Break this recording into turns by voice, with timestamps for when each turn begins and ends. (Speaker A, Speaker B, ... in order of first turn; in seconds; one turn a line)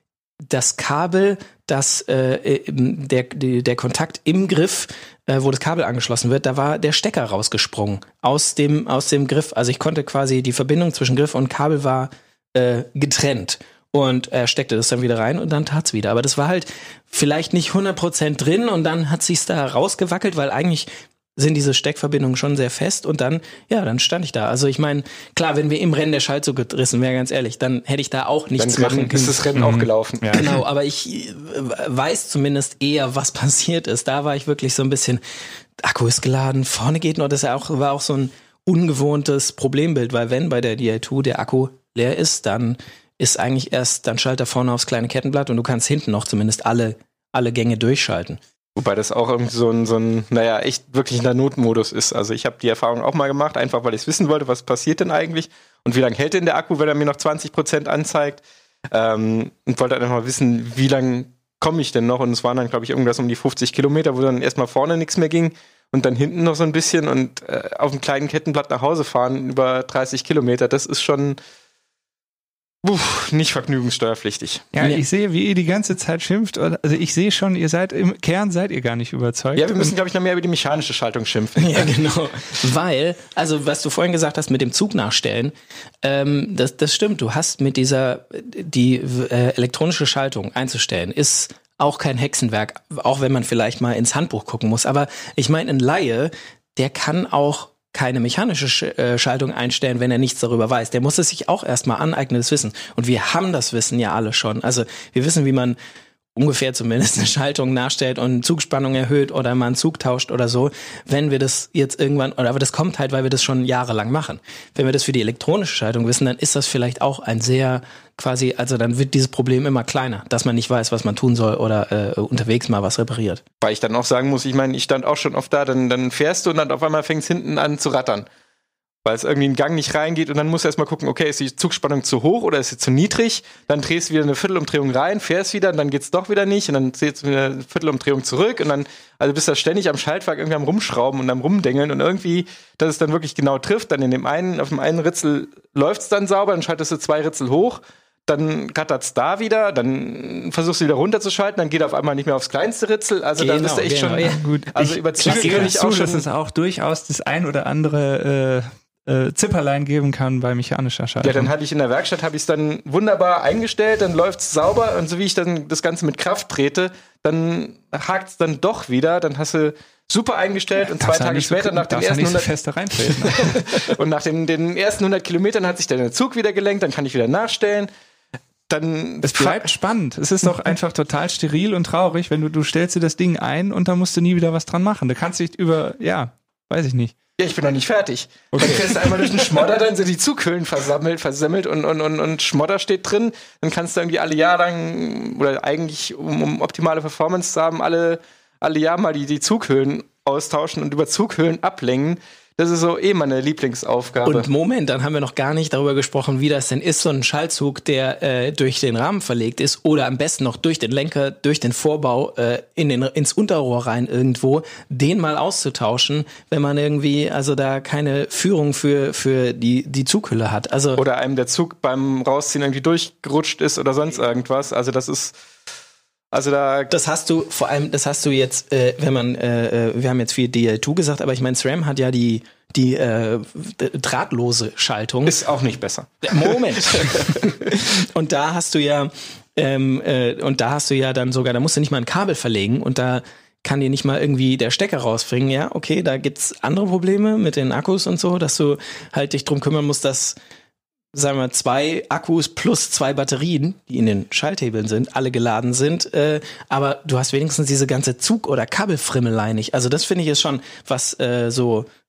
Speaker A: 0.4-29.4
Speaker B: 28.6-30.5
Speaker C: 29.6-30.6
Speaker A: 30.4-35.2
Speaker A: 35.8-48.4
Speaker B: 48.8-71.4
Speaker B: 72.8-74.7
Speaker C: 74.7-79.9
Speaker B: 79.5-81.9
Speaker A: 81.6-105.8
Speaker A: 106.3-123.4
Speaker B: 123.6-128.3
Speaker B: 129.1-156.3
Speaker A: 153.4-154.4
Speaker C: 154.3-161.5
Speaker A: 155.2-155.7
Speaker B: 161.2-177.9
Speaker C: 171.0-173.6
Speaker B: 178.7-179.7
Speaker C: 179.2-187.1
Speaker B: 187.4-204.5
Speaker C: 188.5-189.3
Speaker A: 204.2-221.0
Speaker B: 221.0-225.4
Speaker B: 226.3-226.9
Speaker A: 226.9-235.4
Speaker B: 235.3-237.4
Speaker A: 236.2-250.4
Speaker A: 251.1-261.9